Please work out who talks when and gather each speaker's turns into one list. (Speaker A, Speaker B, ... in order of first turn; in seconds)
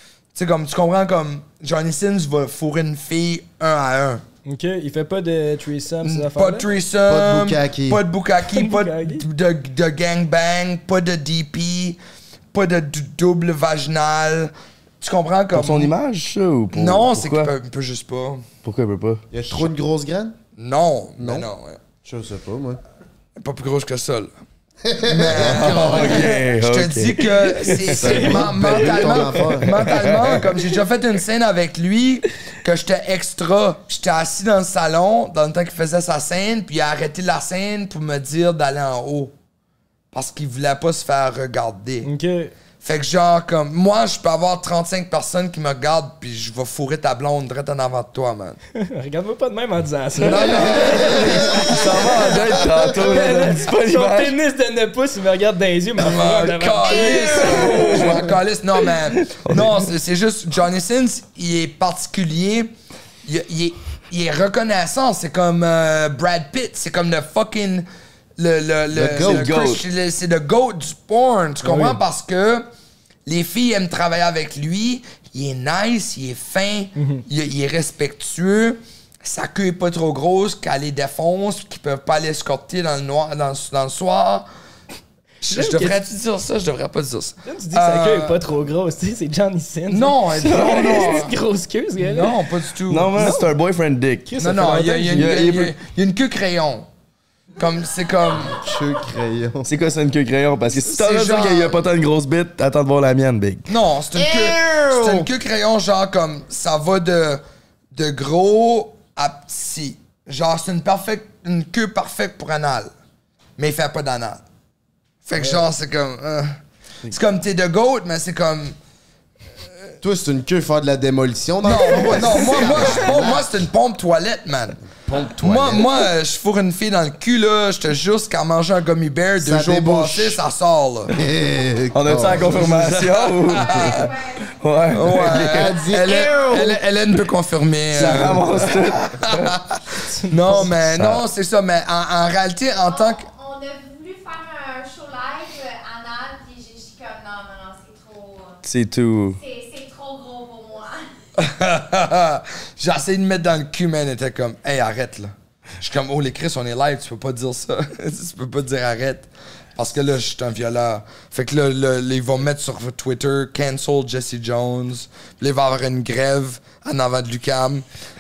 Speaker A: 0.3-4.2, 6.0-12.0, 12.5-15.9, 16.7-18.4, 20.6-21.8, 23.4-24.3, 25.0-39.3, 40.1-42.1, 42.8-48.6, 50.2-52.7, 56.0-62.7, 63.2-67.9, 68.4-72.7, 73.3-84.5, 85.4-88.4, 89.9-91.3, 92.0-93.3, 94.4-96.9, 97.6-98.6, 100.8-101.9, 103.7-107.4, 107.9-112.9, 113.6-114.4, 115.3-116.5, 117.1-118.8, 121.6-124.8, 125.4-131.1, 132.5-134.1, 134.9-143.2, 151.4-167.8
Speaker B: 4.5-6.7, 8.5-9.2, 42.0-42.5, 48.8-58.4, 71.6-72.0, 77.0-77.2, 85.4-86.0, 87.5-92.4, 93.2-93.5, 94.3-95.4, 140.1-140.7
Speaker C: 7.1-8.0, 19.3-20.4, 21.2-21.5, 22.0-22.8, 24.9-26.4, 27.9-30.2, 50.6-51.7, 69.0-69.5, 98.5-99.7, 104.2-105.3, 120.0-123.5, 124.9-126.0, 129.4-130.4, 131.2-132.7, 135.2-136.8
Speaker D: 15.5-17.5, 18.6-19.2, 25.3-30.6, 51.2-54.3, 56.9-58.3, 59.1-59.9, 69.0-69.8, 92.9-94.4, 95.2-95.7, 99.7-103.7, 131.9-134.1, 134.6-135.6, 137.9-139.5, 140.7-141.2, 148.6-149.4
Speaker E: 133.6-134.5, 135.6-136.5, 142.8-148.6, 149.4-151.1